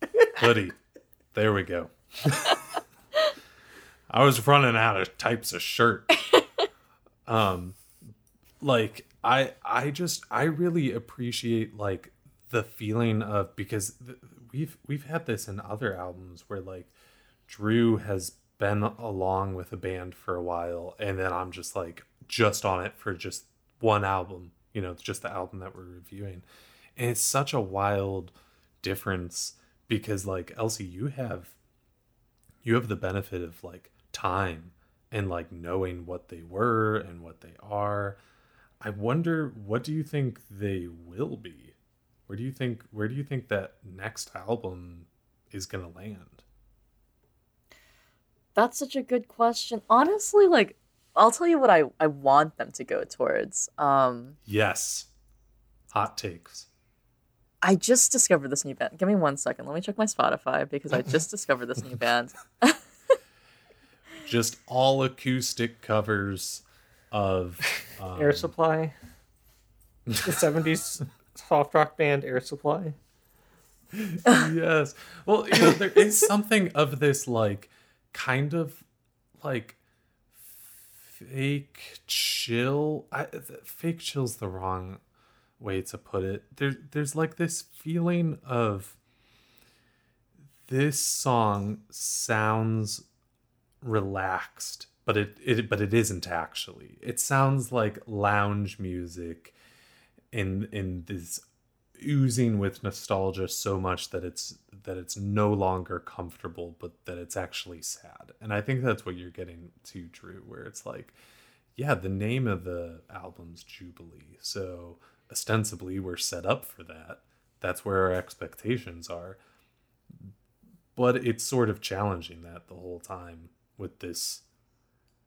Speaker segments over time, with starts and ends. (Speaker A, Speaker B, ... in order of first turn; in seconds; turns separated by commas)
Speaker A: 0.4-0.8, Speaker A: 1.3-2.6, Speaker A: 4.1-6.1, Speaker A: 7.3-7.8, Speaker A: 8.6-16.9, Speaker A: 17.5-26.4, Speaker A: 27.0-31.6, Speaker A: 32.6-38.2, Speaker A: 38.8-41.8, Speaker A: 42.3-46.4, Speaker B: 48.6-54.4, Speaker A: 54.5-55.1, Speaker A: 55.9-56.7, Speaker B: 57.6-62.9, Speaker A: 64.2-68.5, Speaker C: 68.2-68.9, Speaker A: 70.1-70.3, Speaker C: 70.2-73.0, Speaker A: 73.9-78.8, Speaker A: 79.4-79.8, Speaker A: 80.3-85.0, Speaker A: 85.6-89.0, Speaker A: 90.7-93.1, Speaker A: 93.8-99.6, Speaker A: 100.3-101.4, Speaker A: 102.0-111.2, Speaker A: 111.8-119.4, Speaker A: 121.0-124.4